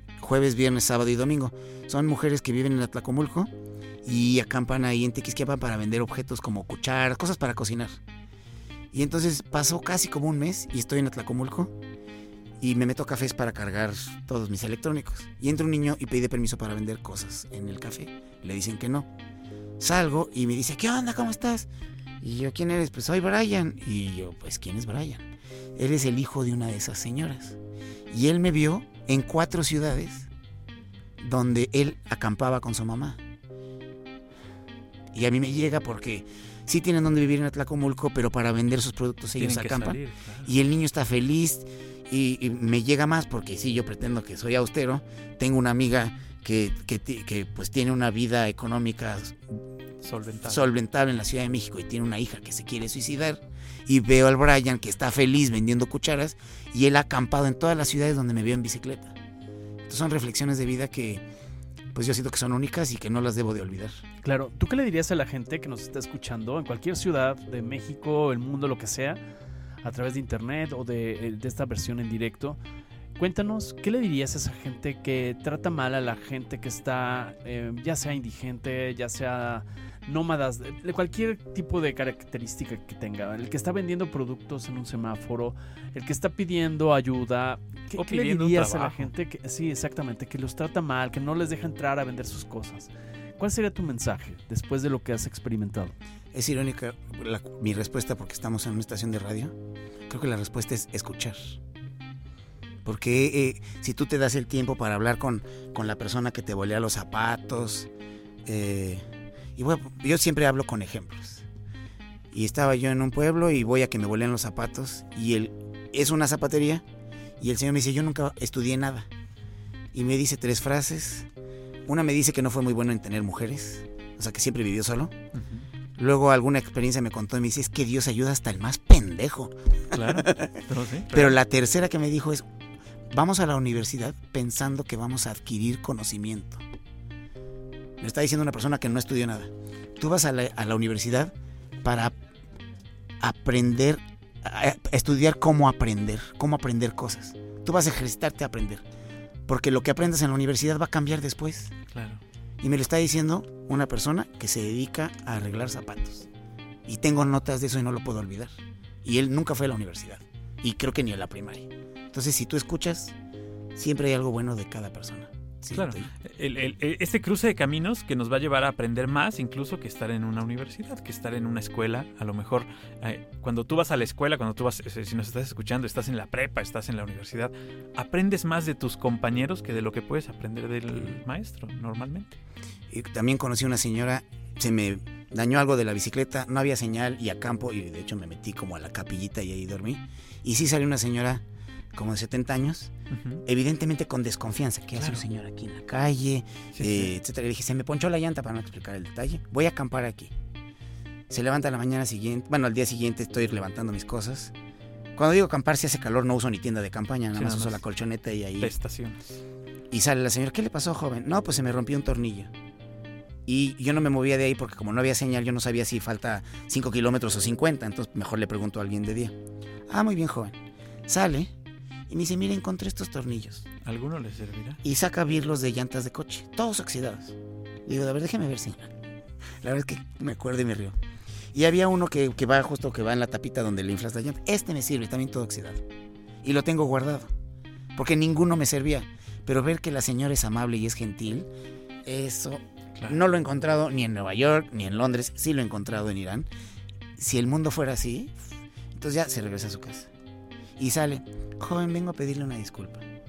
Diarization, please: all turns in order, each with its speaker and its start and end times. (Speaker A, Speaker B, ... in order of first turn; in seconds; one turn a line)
Speaker A: 0.2-3.5
Speaker A: 4.0-8.0
Speaker A: 8.9-11.8
Speaker A: 12.6-19.1
Speaker A: 19.8-21.7
Speaker A: 22.2-27.6
Speaker A: 28.1-30.3
Speaker A: 31.2-33.2
Speaker A: 35.1-49.6
Speaker B: 39.4-40.5
Speaker B: 50.0-50.6
Speaker A: 50.5-59.1
Speaker A: 59.9-61.2
Speaker A: 61.9-64.0
Speaker C: 64.2-69.2
Speaker C: 69.8-72.6
Speaker C: 73.2-96.0
Speaker B: 88.0-89.1
Speaker A: 96.3-99.5
Speaker A: 100.1-101.6
Speaker A: 102.8-107.9
Speaker A: 108.5-109.0
Speaker A: 109.6-111.5
Speaker A: 112.3-116.8
Speaker A: 117.4-119.1
Speaker A: 119.9-121.3
Speaker A: 121.9-125.1
Speaker B: 125.4-125.7
Speaker A: 126.0-130.6
Speaker B: 129.9-131.4
Speaker A: 131.1-132.5
Speaker A: 133.1-136.6
Speaker A: 138.0-142.1
Speaker A: 143.2-148.8
Speaker A: 149.5-151.8
Speaker B: 151.9-152.2
Speaker A: 152.6-156.3
Speaker A: 156.9-163.2
Speaker A: 163.8-166.1
Speaker B: 165.7-182.4
Speaker A: 182.9-191.4
Speaker A: 191.9-192.9
Speaker B: 193.1-193.4
Speaker A: 193.5-200.3
Speaker B: 195.0-195.2
Speaker B: 196.7-197.1
Speaker A: 201.3-204.5
Speaker A: 205.2-208.7
Speaker B: 207.3-207.8
Speaker B: 208.6-209.4
Speaker A: 209.9-212.5
Speaker A: 213.5-219.3
Speaker A: 219.9-221.5
Speaker A: 222.1-223.7
Speaker B: 223.8-224.8
Speaker A: 224.8-228.9
Speaker A: 229.6-230.9
Speaker A: 231.5-235.8
Speaker A: 236.4-237.3
Speaker A: 238.0-241.5
Speaker A: 242.1-246.5
Speaker A: 247.2-250.1
Speaker A: 250.8-253.1